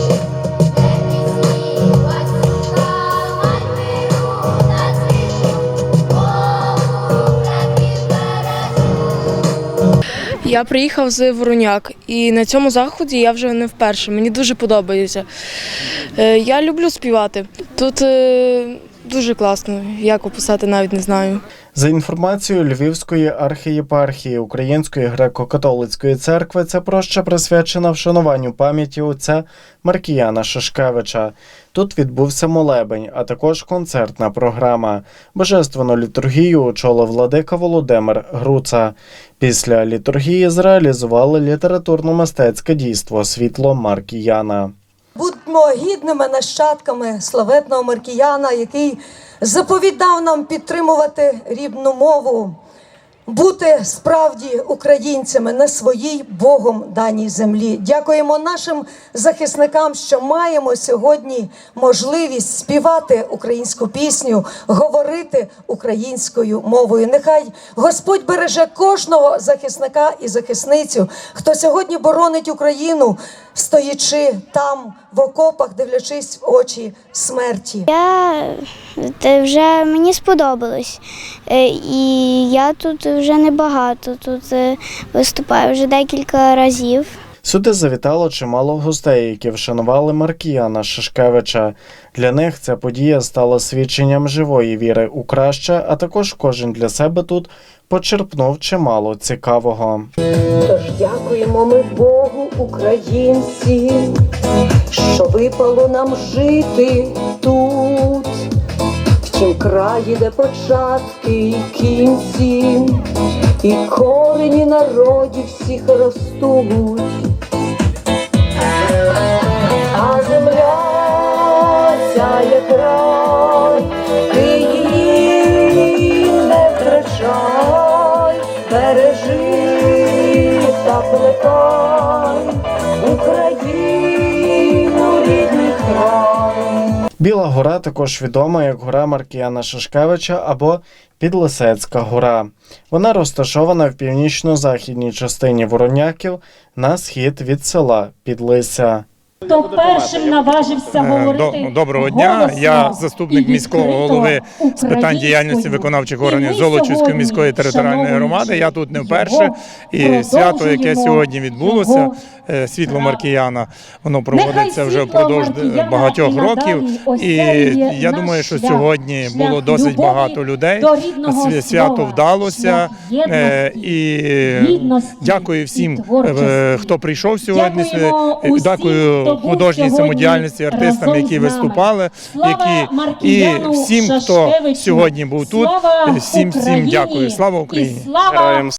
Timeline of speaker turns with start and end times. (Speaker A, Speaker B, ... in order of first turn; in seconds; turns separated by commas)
Speaker A: 10.4-15.3, Speaker A: 16.1-21.4, Speaker B: 21.7-44.7, Speaker C: 45.1-52.5, Speaker C: 53.3-77.8, Speaker D: 77.9-87.1, Speaker B: 87.4-100.1, Speaker C: 100.6-104.2, Speaker C: 104.9-108.4, Speaker C: 109.2-113.0, Speaker C: 113.6-117.1, Speaker C: 119.9-137.0, Speaker B: 137.2-149.0, Speaker E: 149.4-159.5, Speaker F: 151.0-188.2, Speaker E: 160.0-162.1, Speaker E: 164.3-173.8, Speaker E: 174.5-176.9, Speaker E: 177.5-181.8, Speaker E: 182.4-188.7